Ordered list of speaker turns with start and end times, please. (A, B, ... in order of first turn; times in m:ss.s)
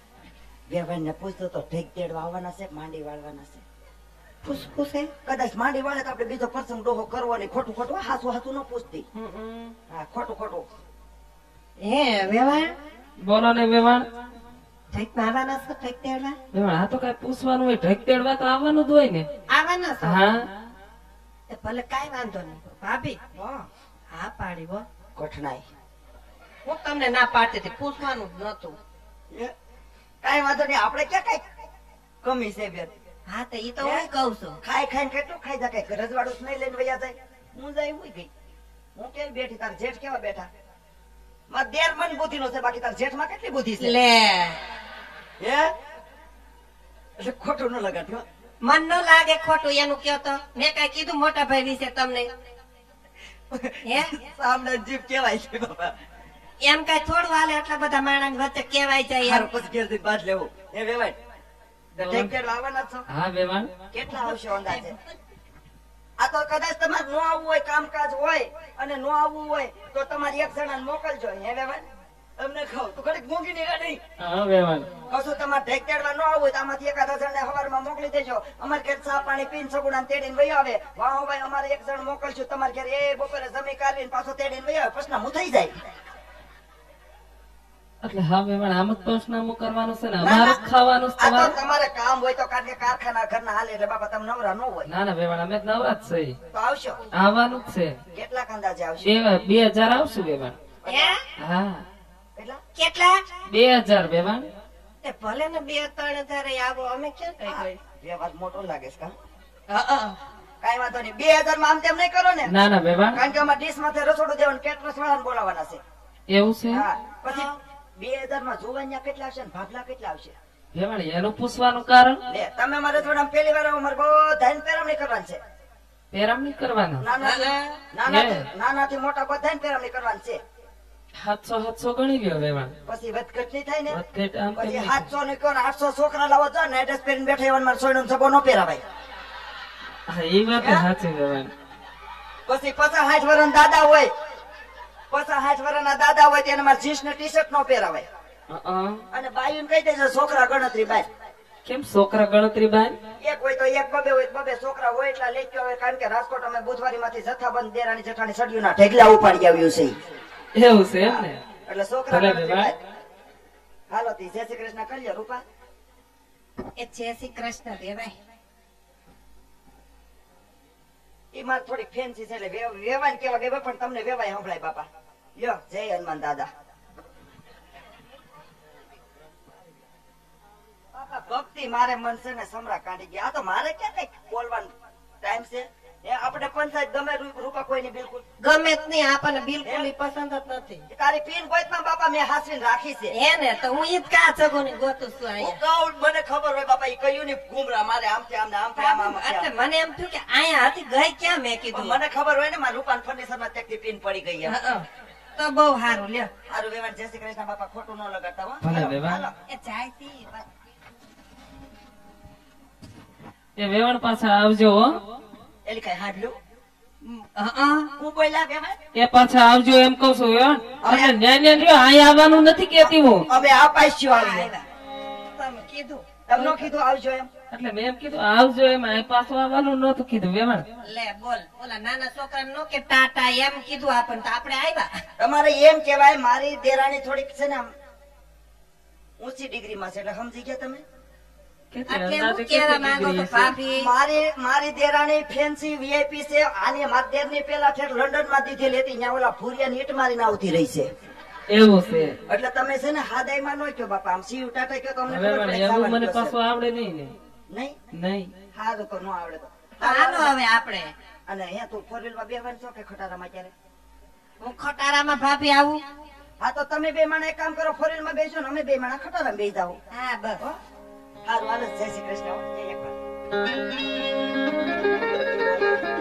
0:00.7-0:03.6 A
0:04.4-0:05.1 B
0:05.2-0:09.1 A
0:09.3-0:09.7 C
0:09.9-0:10.6 A
0:11.8-0:12.7 B
0:13.2-0:14.1 C
0:14.9-0:16.4 B
0:16.5-0:19.3 C
0:19.5-0:20.2 B
0:20.0-0:20.5 C
0:21.5-0:23.2 B
0:23.4-0:23.7 A
0:24.1-0:24.8 B
0:25.2-0:25.7 A
0:26.6-0:28.8 B
0:30.2-0:31.4 A
0:32.2-0:32.9 A
0:33.3-0:34.6 B
0:33.8-0:34.1 A
0:34.6-0:38.3 A
0:39.0-0:40.5 A
0:41.5-0:43.9 A
0:43.8-0:44.6 B
0:45.4-0:45.7 A
0:47.2-0:48.2 A
0:48.6-0:52.3 B
0:53.5-0:55.9 A
0:53.8-0:54.2 B
0:56.6-0:59.5 B
0:59.2-1:01.2 A
1:02.0-1:02.3 C
1:02.0-1:03.0 A
1:03.1-1:03.7 C
1:03.9-1:05.0 A
1:04.1-1:05.1 B
1:06.2-1:11.8 A
1:12.4-1:14.0 A
1:14.2-1:14.9 C
1:15.1-1:25.8 A
1:28.0-1:31.6 C
1:30.2-1:30.6 A
1:31.2-1:34.9 A
1:34.9-1:36.4 C
1:36.5-1:37.0 A
1:37.1-1:38.0 C
1:38.1-1:39.1 A
1:39.0-1:40.6 C
1:40.8-1:41.2 A
1:40.9-1:41.2 B
1:41.4-1:41.8 C
1:42.8-1:43.3 B
1:43.5-1:44.5 C
1:45.0-1:47.8 B
1:47.5-1:49.1 A
1:49.7-1:50.2 B
1:50.6-1:52.5 A
1:52.5-1:53.2 C
1:53.1-1:55.8 A
1:56.3-1:56.9 C
1:56.7-2:00.4 A
2:00.8-2:02.2 C
2:02.3-2:05.4 A
2:06.1-2:07.1 C
2:07.0-2:10.4 A
2:07.2-2:07.8 B
2:08.1-2:08.5 C
2:11.2-2:12.7 C
2:12.9-2:14.0 A
2:13.9-2:15.1 C
2:14.6-2:18.8 A
2:20.1-2:21.5 C
2:20.6-2:20.9 A
2:22.5-2:24.1 A
2:25.1-2:28.0 A
2:28.5-2:29.0 C
2:29.1-2:31.1 A
2:31.6-2:33.0 C
2:33.2-2:40.0 A
2:40.5-2:41.4 C
2:41.0-2:42.8 A
2:42.1-2:42.7 C
2:43.9-2:45.4 A
2:46.8-2:48.1 B
2:51.3-2:56.5 A
3:00.9-3:08.2 A
3:08.4-3:10.8 B
3:09.6-3:09.9 A
3:10.9-3:13.1 A
3:13.1-3:15.6 B
3:15.4-3:19.5 A
3:18.8-3:22.0 B
3:21.7-3:24.6 A
3:24.4-3:24.9 B
3:25.4-3:26.3 B
3:26.5-3:29.3 A
3:28.6-3:29.2 C
3:29.5-3:30.5 B
3:33.6-3:35.0 C
3:35.6-3:36.4 A
3:37.0-3:37.9 B
3:38.0-3:38.8 A
3:38.9-3:43.3 C
3:40.8-3:41.2 A
3:42.8-3:44.5 A
3:43.8-3:44.6 B
3:45.4-3:46.6 B
3:46.3-3:47.3 A
3:47.5-3:50.7 C
3:50.8-3:54.9 B
3:55.2-3:57.7 A
3:59.2-4:00.8 A
4:01.7-4:03.5 C
4:01.9-4:03.9 B
4:03.7-4:10.9 A
4:11.5-4:12.2 C
4:12.3-4:16.4 A
4:15.1-4:17.2 C
4:17.5-4:17.8 A
4:17.9-4:18.3 C
4:18.5-4:20.4 A
4:19.8-4:20.9 B
4:21.3-4:23.5 A
4:24.4-4:25.8 B
4:26.4-4:29.8 A
4:29.9-4:30.4 B
4:31.2-4:33.0 A
4:35.2-4:35.8 A